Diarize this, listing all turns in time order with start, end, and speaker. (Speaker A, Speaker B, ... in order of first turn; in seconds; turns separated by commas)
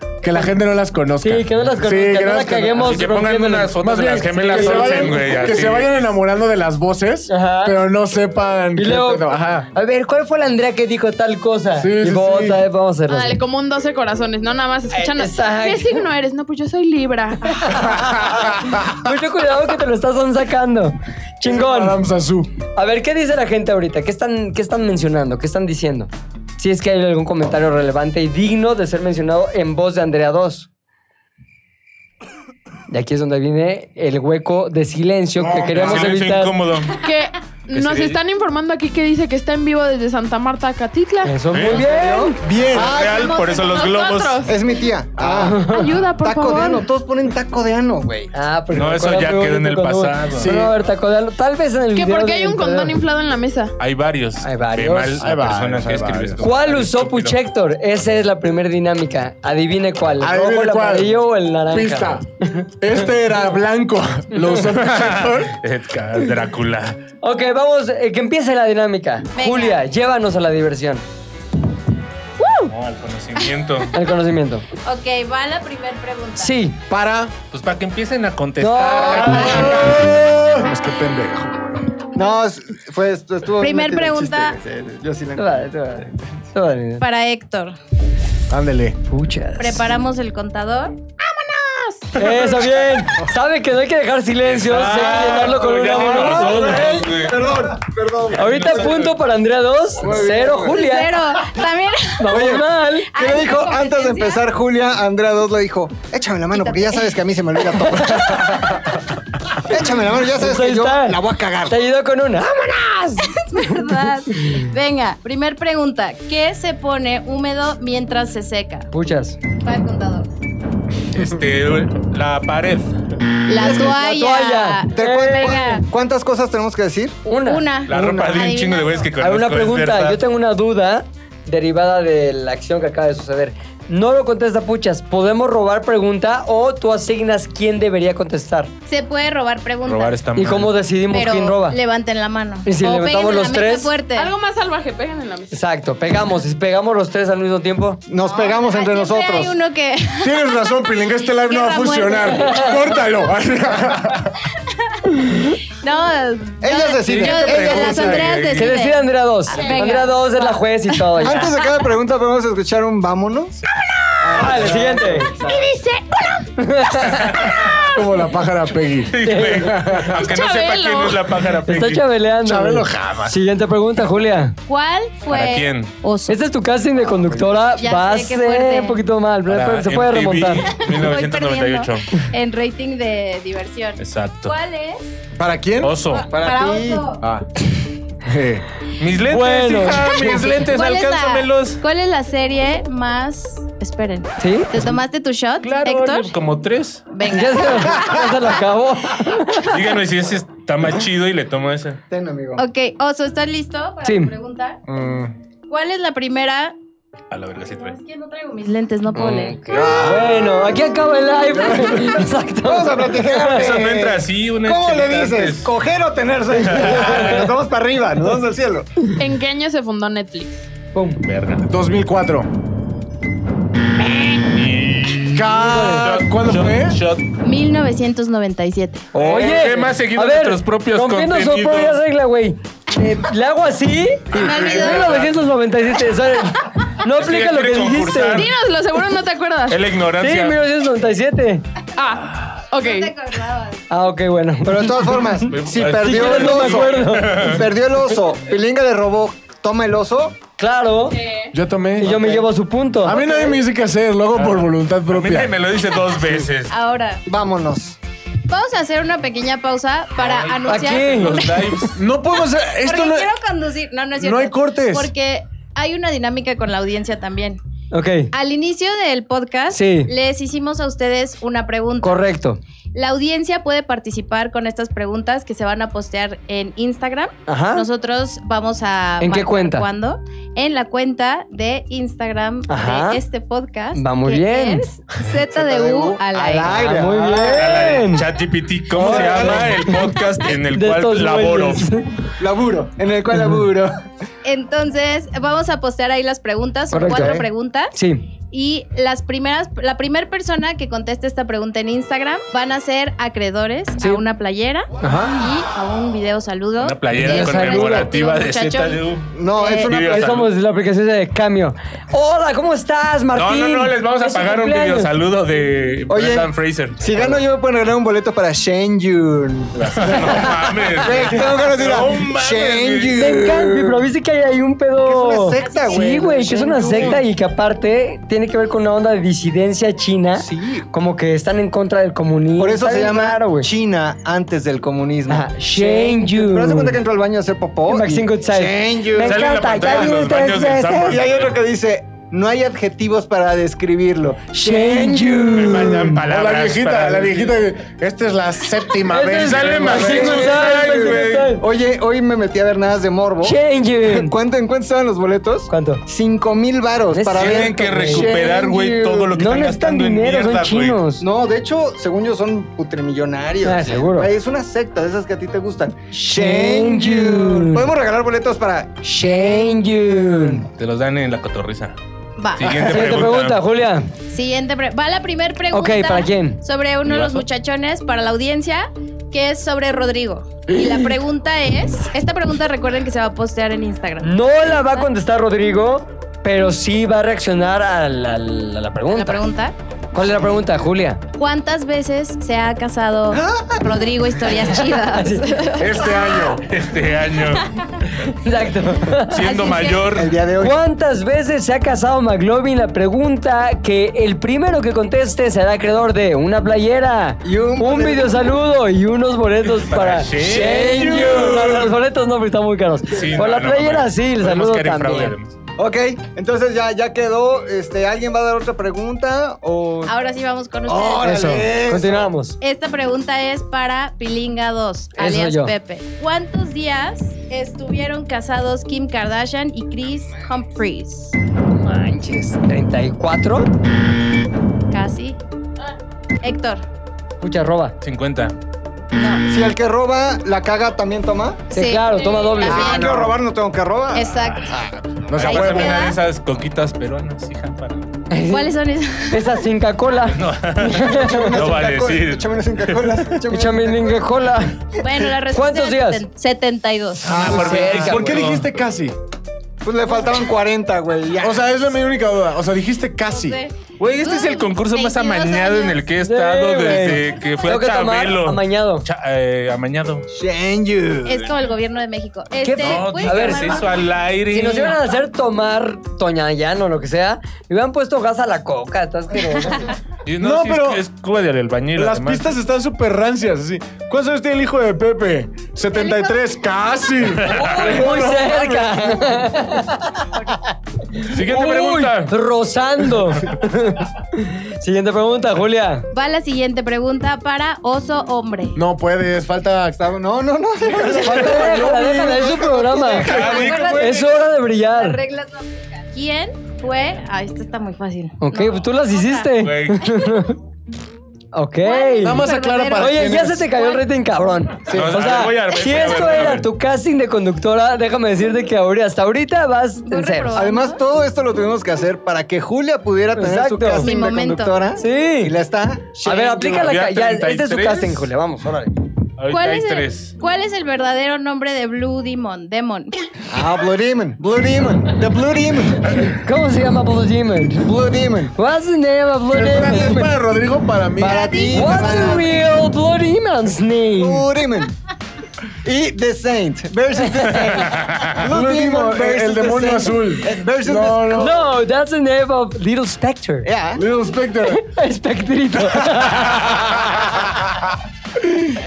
Speaker A: 0.2-3.1, Speaker B: 1.2-3.8, Speaker C: 2.8-6.0, Speaker A: 3.8-9.7, Speaker B: 4.4-5.3, Speaker B: 7.3-7.8, Speaker B: 8.8-13.4, Speaker A: 11.8-12.6, Speaker D: 13.1-17.9, Speaker B: 14.9-16.0, Speaker B: 17.6-22.0, Speaker A: 21.4-22.5, Speaker B: 22.8-30.7, Speaker B: 32.9-36.5, Speaker A: 35.4-36.2, Speaker C: 35.7-37.0, Speaker D: 37.0-41.4, Speaker C: 37.7-38.2, Speaker B: 41.2-42.4, Speaker C: 41.5-41.8, Speaker E: 41.5-43.5, Speaker A: 42.4-42.9, Speaker C: 42.7-44.5, Speaker F: 43.0-44.1, Speaker D: 43.3-44.5, Speaker E: 44.4-45.7, Speaker B: 45.2-45.9, Speaker D: 45.7-46.9, Speaker E: 46.2-48.3, Speaker B: 48.3-52.9, Speaker C: 48.7-50.5, Speaker A: 50.3-50.7, Speaker D: 51.9-53.7, Speaker C: 53.8-57.4, Speaker B: 54.4-55.3, Speaker A: 55.2-56.4, Speaker B: 56.4-62.7, Speaker A: 60.2-61.1, Speaker A: 61.7-62.2, Speaker A: 62.8-65.5, Speaker C: 64.7-67.0, Speaker B: 67.2-71.0, Speaker F: 69.3-69.8, Speaker B: 72.4-72.7, Speaker C: 72.7-73.9, Speaker B: 73.9-74.7, Speaker F: 74.8-76.5, Speaker B: 76.4-76.8, Speaker A: 76.9-77.3, Speaker C: 77.5-79.9, Speaker B: 78.6-80.0, Speaker A: 79.2-81.8, Speaker E: 82.1-86.0, Speaker F: 83.6-84.6, Speaker B: 85.4-87.0, Speaker F: 87.0-87.8, Speaker A: 88.5-89.0, Speaker B: 89.1-89.9, Speaker F: 89.6-91.0, Speaker E: 91.2-92.5, Speaker B: 92.2-97.1, Speaker C: 94.4-97.5, Speaker E: 96.0-98.9, Speaker C: 98.3-99.1, Speaker B: 98.3-101.2, Speaker E: 100.0-100.8, Speaker F: 100.6-102.6, Speaker B: 102.2-103.1, Speaker E: 102.3-108.8, Speaker F: 103.1-104.4, Speaker F: 106.5-107.2, Speaker F: 107.8-108.1, Speaker E: 109.6-111.8, Speaker B: 109.7-113.8, Speaker F: 113.4-118.9, Speaker B: 114.4-114.6, Speaker B: 118.9-119.4, Speaker F: 119.6-120.3, Speaker C: 121.1-122.9, Speaker F: 123.5-125.8, Speaker E: 123.5-124.0, Speaker B: 123.7-125.8, Speaker E: 124.9-127.2, Speaker B: 127.3-128.5, Speaker F: 127.3-129.1, Speaker C: 127.9-130.2, Speaker B: 129.2-138.7, Speaker F: 138.9-140.2, Speaker C: 139.8-140.7, Speaker B: 140.3-141.8, Speaker F: 141.1-144.3, Speaker B: 142.7-143.9, Speaker D: 144.1-145.6, Speaker B: 145.5-148.0, Speaker E: 148.1-149.6, Speaker F: 148.2-150.4, Speaker A: 150.2-154.4, Speaker F: 151.3-152.7, Speaker F: 154.9-161.5, Speaker E: 156.6-158.3, Speaker C: 157.0-158.7, Speaker B: 158.5-161.5, Speaker D: 159.5-159.9, Speaker E: 161.2-163.6, Speaker E: 164.2-165.8, Speaker B: 164.3-165.3, Speaker F: 165.7-166.3, Speaker B: 166.6-167.4, Speaker C: 167.1-167.8, Speaker A: 167.8-170.2, Speaker C: 169.1-172.0, Speaker B: 169.2-169.8, Speaker D: 170.1-171.3, Speaker B: 171.6-174.6, Speaker A: 172.4-173.4, Speaker F: 174.7-176.4, Speaker C: 175.3-175.9, Speaker B: 176.3-180.7, Speaker F: 177.7-179.0, Speaker C: 179.5-182.2, Speaker F: 180.7-185.1, Speaker C: 184.0-184.5, Speaker A: 185.3-186.0, Speaker C: 185.8-186.3, Speaker F: 186.1-187.2, Speaker E: 186.3-187.1, Speaker A: 187.2-187.5, Speaker A: 188.2-188.6, Speaker C: 189.0-191.8, Speaker B: 189.3-190.5, Speaker F: 190.2-196.3, Speaker B: 194.4-194.8, Speaker C: 195.6-197.0, Speaker F: 197.1-198.4, Speaker B: 197.2-199.8, Speaker C: 199.7-202.0, Speaker E: 202.1-202.6, Speaker F: 202.6-204.8, Speaker B: 204.0-204.3, Speaker A: 204.9-205.3, Speaker F: 205.7-206.7, Speaker C: 207.3-208.0, Speaker F: 207.7-210.0, Speaker B: 209.1-213.6, Speaker E: 209.7-210.8, Speaker A: 211.5-212.2, Speaker E: 212.6-219.1, Speaker C: 213.5-215.7, Speaker C: 216.5-217.5, Speaker B: 216.8-217.4, Speaker D: 219.2-220.7, Speaker B: 220.9-221.2, Speaker C: 221.2-221.6, Speaker A: 221.6-222.5, Speaker C: 223.9-227.3, Speaker A: 225.3-227.0, Speaker B: 225.6-226.0, Speaker F: 227.4-229.1, Speaker B: 229.1-238.5, Speaker C: 229.1-232.0, Speaker F: 234.3-235.2, Speaker C: 234.3-235.3, Speaker C: 237.1-238.5, Speaker D: 238.3-239.8, Speaker C: 239.7-240.6, Speaker B: 240.2-241.6, Speaker D: 242.0-243.1, Speaker F: 242.8-243.8, Speaker B: 243.9-245.2, Speaker E: 244.6-250.4, Speaker C: 245.5-247.7, Speaker B: 246.0-247.6, Speaker B: 250.6-251.2, Speaker D: 251.1-251.5, Speaker A: 251.5-252.4, Speaker B: 252.0-253.3, Speaker A: 253.0-255.6, Speaker C: 254.3-256.7, Speaker F: 256.7-257.2, Speaker E: 257.3-258.0, Speaker F: 258.5-261.6, Speaker C: 260.2-262.0, Speaker B: 260.6-261.9, Speaker A: 261.9-263.3, Speaker F: 262.8-267.6, Speaker A: 264.2-265.1, Speaker B: 267.9-268.3, Speaker F: 268.3-272.2, Speaker B: 269.7-270.1, Speaker B: 272.0-272.6, Speaker F: 272.9-287.1, Speaker B: 277.5-277.9, Speaker B: 279.2-279.9, Speaker B: 282.7-283.2, Speaker B: 283.9-284.9, Speaker E: 285.4-287.6, Speaker B: 286.7-288.3, Speaker C: 287.4-291.9, Speaker E: 288.9-289.8, Speaker B: 289.0-290.1, Speaker B: 290.7-292.1, Speaker E: 292.4-293.9, Speaker F: 294.4-297.9, Speaker B: 296.9-297.4, Speaker E: 297.0-297.5, Speaker B: 297.9-298.2, Speaker F: 298.5-309.0, Speaker B: 305.0-305.5, Speaker C: 306.8-309.3, Speaker B: 307.1-308.1, Speaker E: 309.3-310.3, Speaker F: 309.6-309.9, Speaker C: 309.8-310.5, Speaker B: 309.9-315.1, Speaker C: 313.3-317.0, Speaker E: 316.1-324.0, Speaker C: 319.8-323.3, Speaker B: 323.2-333.7, Speaker E: 325.0-327.2, Speaker F: 325.6-326.2, Speaker E: 330.4-330.9, Speaker E: 332.6-340.1, Speaker B: 335.3-337.0, Speaker B: 337.9-341.2, Speaker C: 339.2-341.6, Speaker E: 341.0-346.1, Speaker B: 344.5-346.1, Speaker C: 345.5-347.6, Speaker A: 346.1-350.7, Speaker B: 349.1-351.6, Speaker C: 349.3-351.5, Speaker E: 350.3-358.8, Speaker B: 353.4-354.3, Speaker B: 355.7-356.0, Speaker B: 357.1-361.2, Speaker C: 357.3-361.0, Speaker E: 361.2-369.0, Speaker B: 363.6-364.3, Speaker B: 366.1-367.9, Speaker B: 369.0-370.6, Speaker C: 370.7-371.9, Speaker F: 372.4-372.9, Speaker C: 372.6-373.6, Speaker B: 372.7-374.1, Speaker F: 374.3-385.1, Speaker B: 375.7-376.6, Speaker C: 377.0-377.4, Speaker B: 380.7-381.0, Speaker B: 384.2-389.4, Speaker F: 389.1-389.7, Speaker B: 390.1-391.2, Speaker E: 390.2-390.7, Speaker F: 391.4-396.1, Speaker E: 393.3-394.1, Speaker B: 395.0-395.5, Speaker A: 395.8-396.7, Speaker C: 396.6-397.7, Speaker B: 398.2-399.4, Speaker C: 399.3-400.4, Speaker F: 399.4-400.1, Speaker E: 400.1-400.8, Speaker B: 400.6-415.3, Speaker E: 407.4-408.6, Speaker C: 409.8-410.9, Speaker E: 410.7-411.5, Speaker A: 410.9-411.7, Speaker C: 413.1-415.5, Speaker E: 415.8-420.1, Speaker F: 420.1-421.6, Speaker E: 420.9-422.3, Speaker B: 421.2-422.6, Speaker F: 422.6-431.4, Speaker B: 425.2-425.7, Speaker B: 431.8-433.7, Speaker F: 434.9-435.4, Speaker F: 436.4-436.8, Speaker B: 437.4-437.9, Speaker C: 438.0-438.5, Speaker F: 439.1-439.4, Speaker E: 439.4-441.7, Speaker F: 441.7-443.3, Speaker B: 441.7-443.1, Speaker D: 442.1-442.6, Speaker E: 442.6-445.0, Speaker F: 444.1-444.7, Speaker A: 445.3-446.1, Speaker C: 445.3-448.1, Speaker F: 445.4-446.1, Speaker B: 448.3-448.7, Speaker F: 448.5-449.6, Speaker B: 449.3-451.6, Speaker C: 450.3-453.2, Speaker E: 450.9-454.3, Speaker B: 453.5-454.8, Speaker F: 455.0-457.4, Speaker B: 455.5-456.2, Speaker C: 457.2-458.7, Speaker A: 457.3-459.1, Speaker E: 457.4-458.1, Speaker B: 457.4-458.3, Speaker E: 459.8-461.6, Speaker A: 461.4-463.6, Speaker F: 463.3-466.1, Speaker C: 464.0-470.2, Speaker B: 466.2-469.0, Speaker E: 470.3-471.5, Speaker F: 471.2-474.0, Speaker B: 472.6-473.8, Speaker C: 472.8-475.0, Speaker B: 474.5-479.9, Speaker C: 480.2-482.5, Speaker A: 480.4-481.0, Speaker A: 481.9-489.5, Speaker F: 485.9-486.4, Speaker C: 487.4-487.8, Speaker B: 487.5-496.1, Speaker C: 491.2-492.3, Speaker F: 496.1-498.8, Speaker A: 498.8-500.0, Speaker E: 499.9-503.9, Speaker B: 501.0-503.3, Speaker A: 501.2-503.9, Speaker F: 503.2-509.5, Speaker C: 503.2-504.0, Speaker B: 503.9-505.2, Speaker B: 508.4-510.6, Speaker C: 509.6-510.0, Speaker B: 511.5-512.4, Speaker F: 511.8-514.0, Speaker A: 512.2-513.7, Speaker B: 513.0-520.6, Speaker C: 514.9-516.7, Speaker F: 520.0-521.0, Speaker E: 520.5-526.8, Speaker B: 523.3-524.1, Speaker F: 524.0-524.8, Speaker B: 525.0-525.5, Speaker B: 526.2-528.9, Speaker C: 526.6-528.3, Speaker C: 529.4-530.3, Speaker F: 529.5-533.1, Speaker E: 533.5-536.3, Speaker B: 536.3-537.8, Speaker E: 537.8-538.5, Speaker B: 538.5-540.3, Speaker A: 539.5-541.6, Speaker E: 541.2-542.5, Speaker F: 541.2-542.5, Speaker B: 541.7-544.5, Speaker E: 544.2-544.9, Speaker E: 545.8-551.6, Speaker C: 547.5-548.4, Speaker A: 548.4-551.6, Speaker B: 551.4-553.7, Speaker E: 553.6-554.0, Speaker A: 553.9-554.8, Speaker B: 554.7-556.7